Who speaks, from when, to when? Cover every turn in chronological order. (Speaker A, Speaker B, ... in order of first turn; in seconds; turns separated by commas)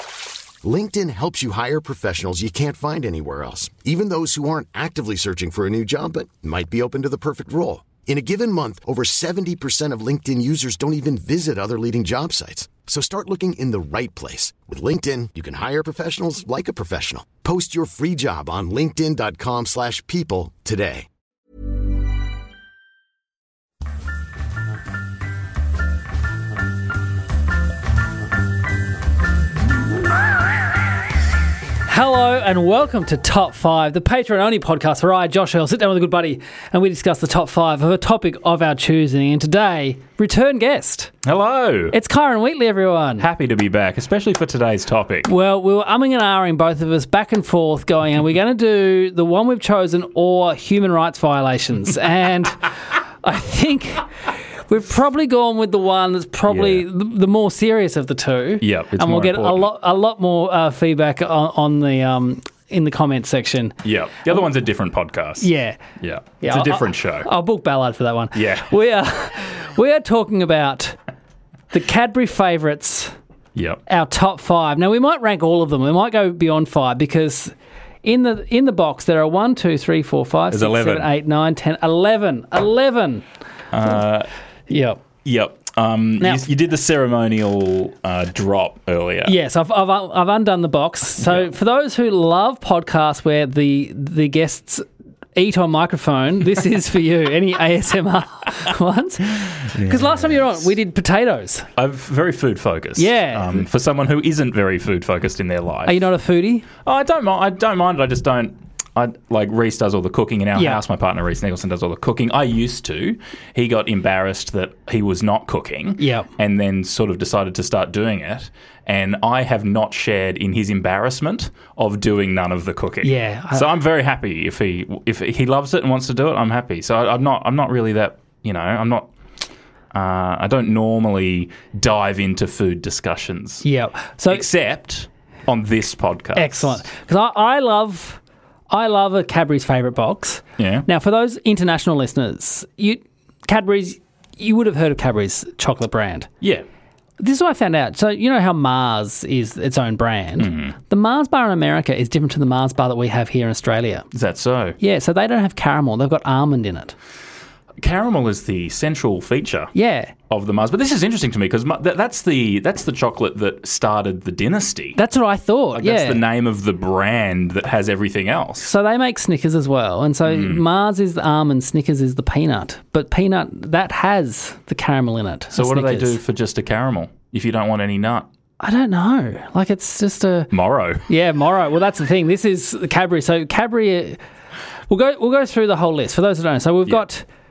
Speaker A: 0.6-21.1, Speaker B: 31.9-41.1, Speaker C: 41.2-42.0, Speaker B: 41.9-43.2, Speaker C: 43.2-45.3, Speaker B: 45.2-52.7, Speaker B: 53.2-63.8, Speaker C: 56.5-56.9, Speaker C: 58.6-59.7, Speaker C: 63.8-67.3, Speaker B: 65.4-65.8, Speaker B: 66.4-71.0, Speaker C: 68.3-68.7, Speaker B: 71.7-73.1, Speaker C: 73.5-73.8, Speaker B: 73.8-83.2, Speaker C: 80.5-81.1, Speaker C: 83.7-84.3, Speaker B: 84.7-85.0, Speaker C: 85.2-89.4, Speaker B: 86.2-86.5, Speaker B: 89.2-101.7, Speaker C: 91.2-91.5, Speaker C: 101.8-106.0, Speaker B: 103.0-103.6, Speaker B: 105.8-106.7, Speaker C: 106.8-129.1, Speaker B: 110.5-110.8, Speaker B: 116.0-116.3, Speaker B: 123.0-123.7, Speaker C: 129.9-133.6, Speaker B: 133.6-134.5, Speaker C: 134.3-136.8, Speaker B: 136.3-146.3, Speaker C: 140.6-140.9, Speaker B: 147.2-154.1, Speaker C: 150.4-150.7, Speaker C: 154.1-154.8, Speaker B: 154.8-156.9, Speaker C: 157.8-159.7, Speaker B: 159.7-160.1, Speaker C: 160.3-165.0, Speaker B: 164.9-166.2, Speaker C: 165.7-168.7, Speaker B: 168.6-176.2, Speaker C: 170.2-170.6, Speaker C: 175.5-178.3, Speaker B: 178.6-180.5, Speaker C: 180.5-181.0, Speaker B: 181.1-184.2, Speaker B: 184.9-187.2